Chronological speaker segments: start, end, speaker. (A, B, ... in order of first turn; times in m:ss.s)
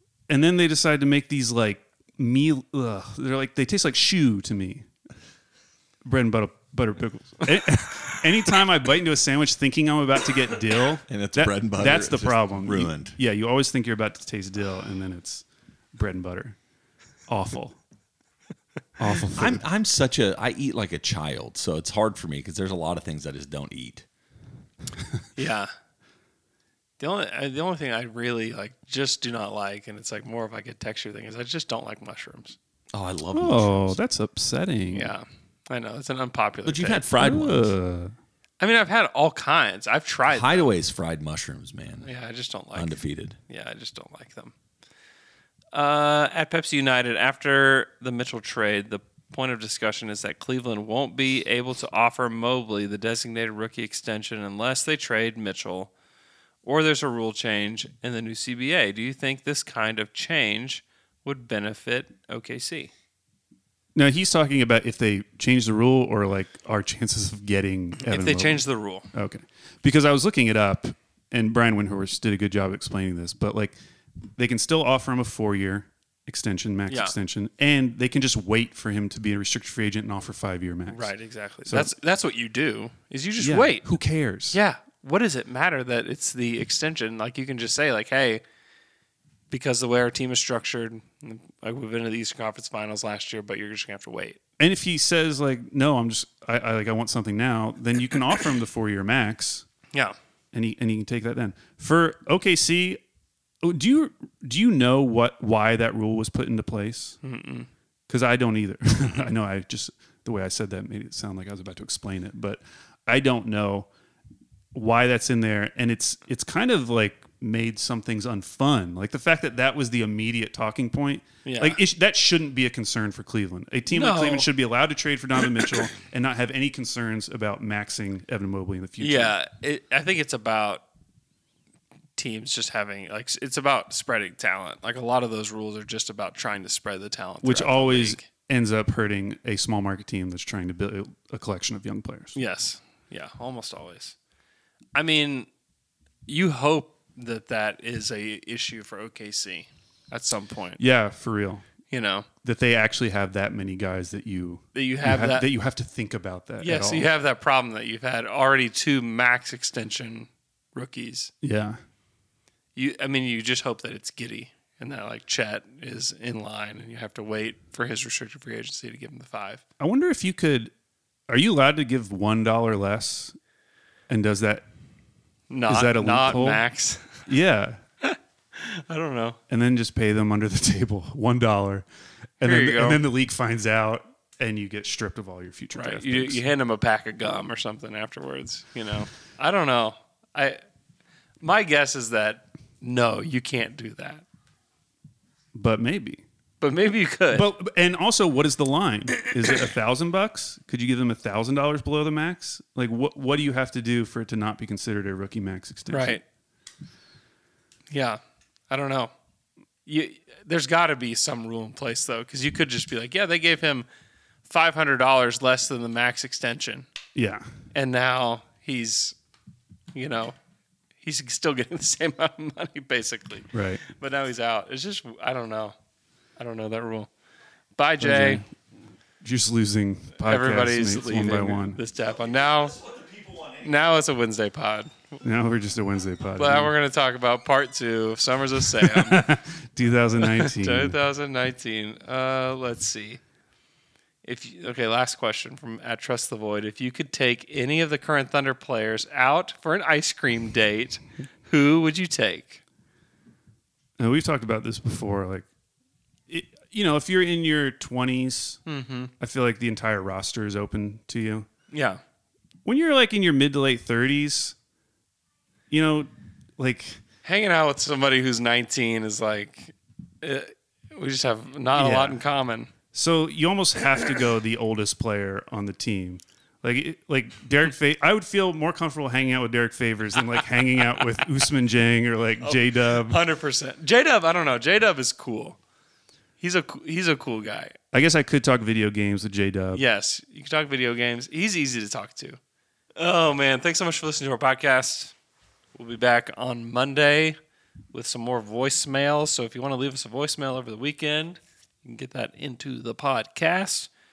0:00.3-0:04.9 A
0:06.0-0:16.6 A
0:11.1-0:13.2 B
0:17.3-0:17.8 A
0:19.0-0:19.6 A
0:19.4-0:24.1 B
0:25.4-0:25.7 C
0:27.0-0:32.6 C
0:32.9-0:34.0 B
0:33.3-0:35.1 A
0:34.9-0:37.1 C
0:36.6-0:37.8 B
0:37.2-0:38.1 A
0:38.6-0:40.7 C
0:40.3-0:42.1 B
0:42.0-0:44.5 C
0:42.7-0:43.4 B
0:45.7-0:55.9 C
0:56.6-1:02.9 C
1:04.0-1:13.8 A
1:08.0-1:09.1 C
1:14.4-1:21.1 A
1:16.9-1:17.2 C
1:20.9-1:23.9 C
1:21.7-1:21.9 A
1:23.4-1:24.6 A
1:24.5-1:28.4 C
1:29.5-1:34.4 C
1:34.6-1:39.7 A
1:40.5-1:43.0 A
1:43.6-1:47.2 A
1:47.2-1:47.7 C
1:48.1-1:53.9 A
1:54.7-2:09.4 A
2:01.4-2:01.8 C
2:03.9-2:04.5 C
2:09.0-2:10.8 C
2:12.2-2:18.2 C
2:17.4-2:22.4 A
2:22.4-2:24.2 C
2:25.0-2:25.5 C
2:26.3-2:30.8 C
2:30.8-2:31.6 A
2:31.9-2:32.3 C
2:32.4-2:37.1 A
2:34.8-2:35.5 C
2:36.6-2:41.3 C
2:41.4-2:41.8 A
2:42.8-2:49.6 C
2:49.8-2:50.7 A
2:51.3-2:53.4 A
2:54.1-2:54.7 A
2:55.5-2:57.2 C
2:55.7-2:56.6 A
2:57.3-2:57.8 A
2:58.0-2:59.4 C
2:59.5-3:01.9 A
3:02.4-3:06.4 A
3:02.4-3:03.0 C
3:05.8-3:10.6 C
3:11.4-3:14.2 C
3:15.6-3:16.2 A
3:16.6-3:17.5 C
3:17.3-3:26.2 A
3:25.9-3:26.2 C
3:27.9-3:28.2 C
3:28.7-3:29.1 C
3:29.9-3:33.9 C
3:34.5-3:36.9 C
3:37.2-3:37.4 A
3:37.7-3:39.2 C
3:39.9-3:40.4 C
3:41.0-3:45.7 C
3:43.5-3:43.8 A
3:46.4-3:47.1 C
3:47.8-3:48.4 C
3:48.0-3:48.5 A
3:49.2-3:51.8 A
3:50.2-3:52.8 C
3:52.1-3:53.7 B
3:53.6-3:54.9 C
3:55.2-3:56.7 A
3:56.4-3:59.2 C
3:58.8-4:01.0 A
4:00.2-4:03.2 C
4:04.2-4:12.6 C
4:14.0-4:15.4 A
4:16.3-4:18.6 A
4:18.7-4:19.1 C
4:19.2-4:21.5 A
4:21.7-4:22.0 C
4:22.6-4:24.6 A
4:25.7-4:27.0 A
4:27.2-4:32.7 C
4:31.8-4:32.2 A
4:32.9-4:43.2 A
4:42.4-4:45.6 C
4:46.4-4:47.8 C
4:47.9-4:49.8 A
4:49.8-4:52.4 C
4:53.0-4:55.1 C
4:55.8-4:57.4 C
4:57.9-5:03.9 C